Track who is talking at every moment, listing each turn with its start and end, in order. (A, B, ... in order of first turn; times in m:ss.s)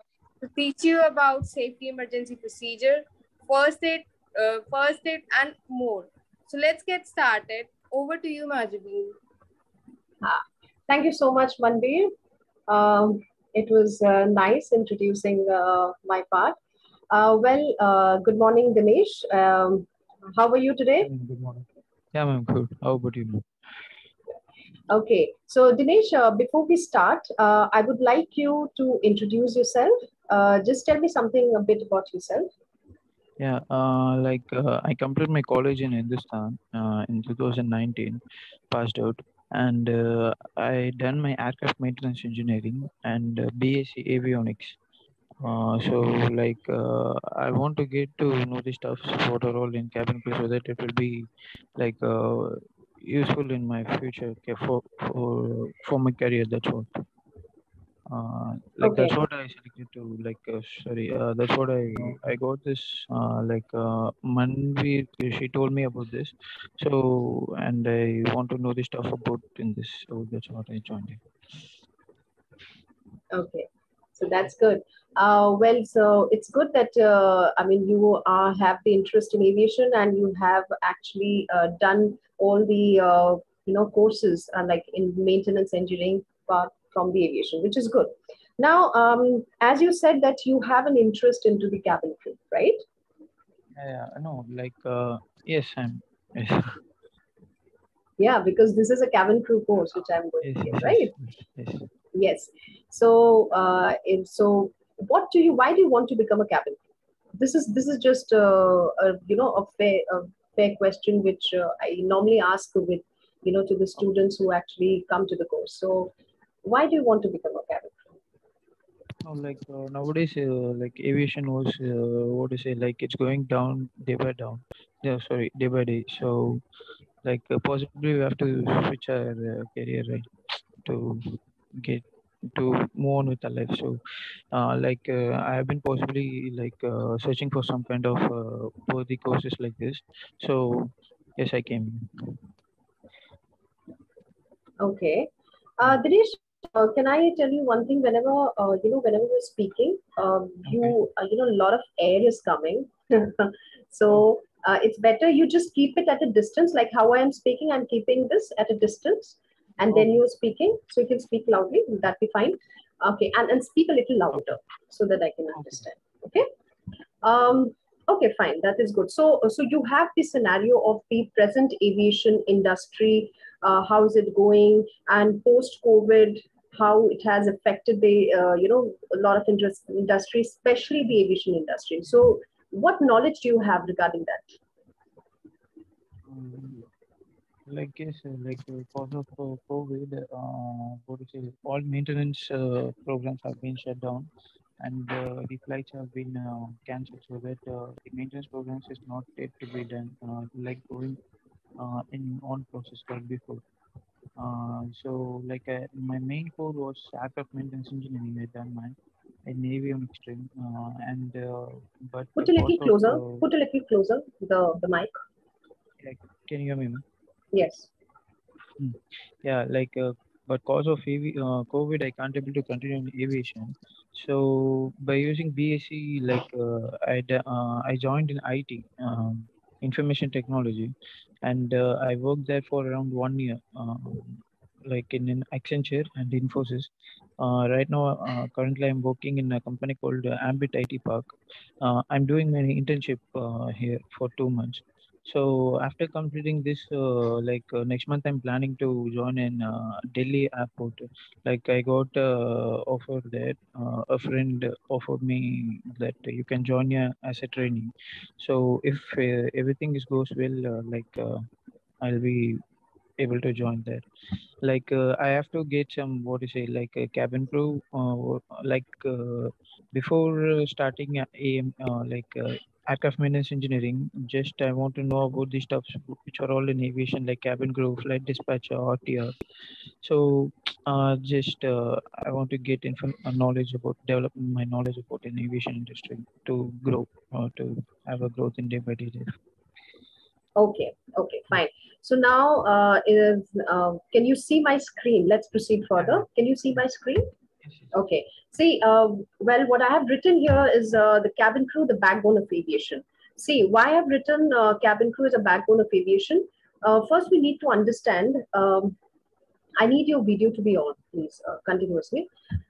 0:00.4-0:09.2 A
0:10.2-0:12.1 B
0:12.7-0:16.6 B
0:17.1-0:21.1 B
0:21.0-0:23.5 C
0:24.9-0:32.5 B
0:33.4-0:44.8 C
0:45.4-0:57.0 C
0:58.1-1:11.8 C
0:58.8-0:59.2 B
1:13.3-1:32.8 B
1:33.8-1:36.8 C
1:38.2-1:41.1 B
1:40.4-1:41.9 C
1:42.1-1:46.8 B
1:47.4-1:56.1 B
1:56.6-1:58.0 B
1:59.2-2:06.6 C
2:07.2-2:14.0 C
2:14.5-2:22.4 C
2:24.8-2:46.5 B
2:30.7-2:31.0 C
2:45.6-2:45.8 C
2:47.2-3:04.6 B
3:06.3-3:06.9 C
3:07.7-3:14.3 C
3:14.8-3:21.2 C
3:21.8-3:23.6 C
3:24.4-3:33.4 C
3:32.4-3:35.1 B
3:36.0-3:37.0 C
3:37.5-3:37.9 B
3:38.8-4:01.3 C
4:01.8-4:21.5 C
4:22.0-4:22.6 C
4:23.2-4:24.0 C
4:24.6-4:39.3 C
4:40.0-4:49.3 C
4:50.6-4:57.3 B
4:57.9-5:09.0 B
5:09.8-5:12.3 B